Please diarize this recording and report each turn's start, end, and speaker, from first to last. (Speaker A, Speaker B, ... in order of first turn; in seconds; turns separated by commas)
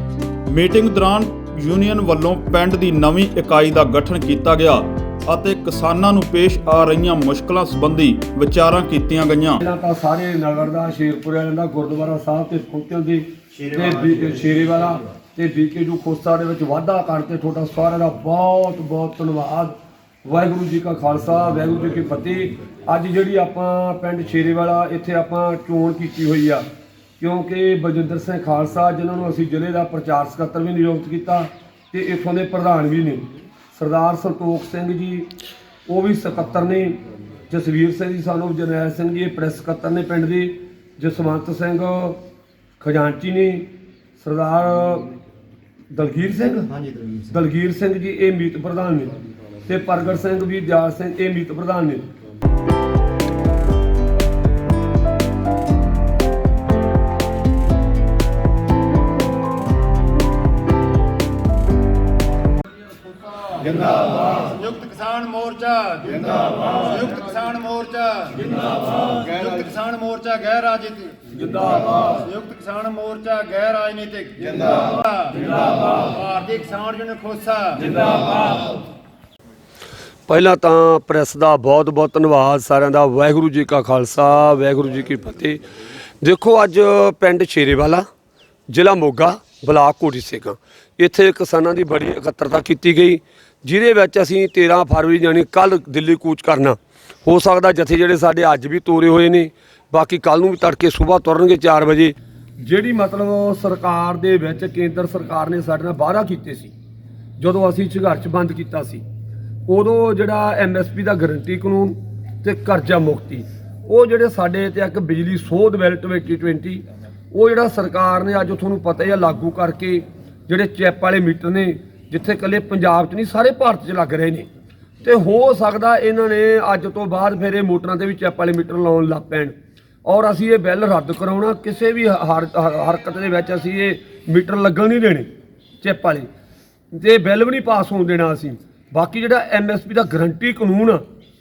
Speaker A: 0.5-9.6, Speaker B: 9.6-26.6, Speaker B: 27.2-35.3, Speaker B: 35.9-42.2, Speaker B: 42.8-45.1, Speaker B: 45.9-49.1, Speaker B: 49.7-52.0, Speaker C: 63.5-71.3, Speaker B: 71.3-71.9, Speaker C: 72.1-78.5, Speaker B: 80.3-85.6, Speaker B: 86.2-88.0, Speaker B: 88.7-106.7, Speaker B: 107.4-109.0, Speaker B: 109.7-124.5, Speaker B: 125.0-129.5, Speaker B: 130.0-135.3, Speaker B: 135.8-136.3, Speaker B: 136.9-141.0